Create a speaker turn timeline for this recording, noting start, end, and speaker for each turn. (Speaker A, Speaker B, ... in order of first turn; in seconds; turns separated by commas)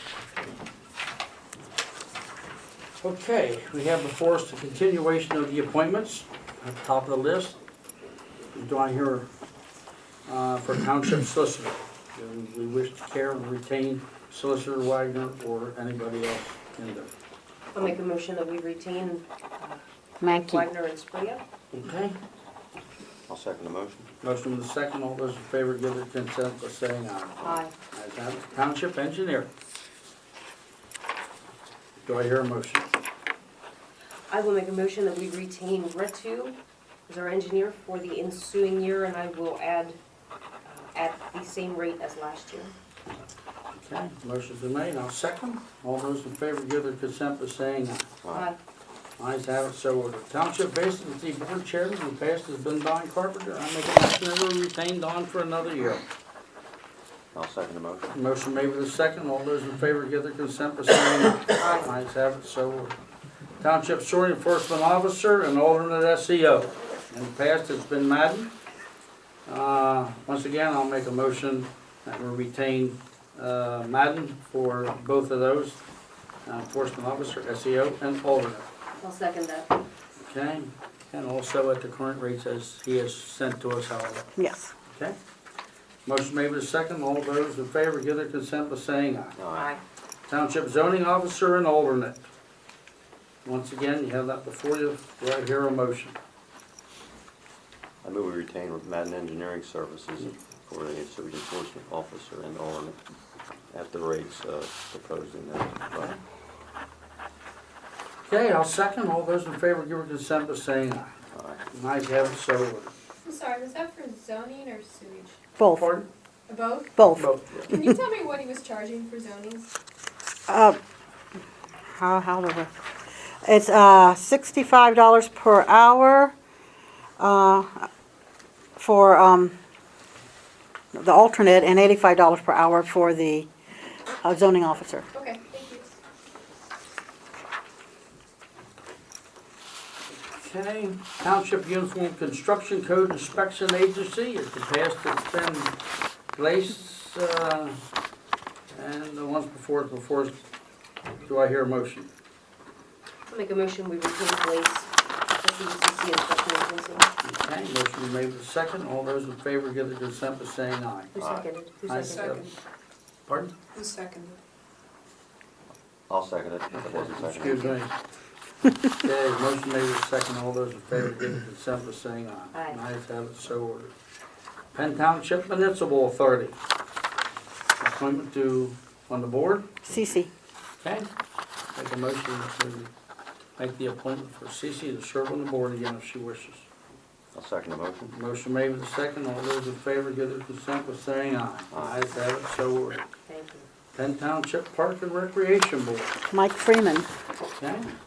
Speaker A: 3.0-7.6, Speaker A: 8.5-9.3, Speaker A: 10.3-17.1, Speaker B: 17.7-21.4, Speaker C: 20.2-20.7, Speaker A: 21.7-22.1, Speaker D: 23.3-24.1, Speaker A: 24.2-29.5, Speaker B: 27.4-27.7, Speaker A: 32.0-32.9, Speaker B: 34.3-36.6, Speaker B: 37.1-40.0, Speaker B: 40.6-42.7, Speaker A: 43.8-48.1, Speaker D: 48.2-48.5, Speaker B: 48.3-48.6, Speaker A: 49.2-56.0, Speaker D: 57.3-58.1, Speaker A: 58.1-63.0, Speaker B: 61.6-61.9, Speaker A: 63.6-68.5, Speaker A: 69.5-75.8, Speaker A: 76.5-78.7, Speaker B: 79.0-79.8, Speaker A: 80.2-84.3, Speaker C: 84.3-84.7, Speaker A: 84.8-85.2, Speaker A: 86.0-89.3, Speaker D: 89.4-89.7, Speaker B: 89.5-89.8, Speaker A: 90.3-92.2, Speaker A: 93.4-96.2, Speaker D: 98.0-103.0, Speaker D: 103.7-106.1, Speaker A: 108.3-111.1, Speaker D: 111.3-111.6, Speaker A: 111.7-112.9, Speaker E: 113.2-115.3, Speaker C: 115.6-115.9, Speaker A: 115.7-116.1, Speaker E: 116.5-117.0, Speaker C: 117.0-117.3, Speaker A: 117.1-117.7, Speaker E: 117.6-119.7, Speaker C: 120.5-120.8, Speaker C: 121.9-122.7, Speaker C: 123.4-126.3, Speaker C: 127.2-127.9, Speaker C: 128.8-129.5, Speaker C: 130.9-133.5, Speaker C: 134.2-135.1, Speaker E: 135.1-135.9, Speaker A: 140.3-145.8, Speaker A: 146.3-147.8, Speaker A: 148.7-150.4, Speaker A: 151.2-152.1, Speaker B: 153.3-157.1, Speaker A: 157.2-161.1, Speaker B: 161.1-162.5, Speaker D: 161.2-161.5, Speaker A: 161.8-162.5, Speaker E: 162.0-162.4, Speaker A: 163.3-163.5, Speaker E: 163.8-164.4, Speaker D: 166.1-167.8, Speaker A: 166.7-167.9, Speaker A: 168.8-173.9, Speaker B: 172.5-172.8, Speaker A: 174.7-176.6, Speaker A: 177.8-179.7, Speaker C: 179.8-180.3, Speaker A: 180.8-181.1, Speaker A: 181.8-182.9, Speaker A: 183.6-186.7, Speaker D: 187.3-188.1, Speaker A: 188.1-193.0, Speaker D: 191.7-192.0, Speaker B: 193.3-193.7, Speaker A: 193.9-196.1, Speaker C: 196.3-197.1, Speaker A: 197.6-197.9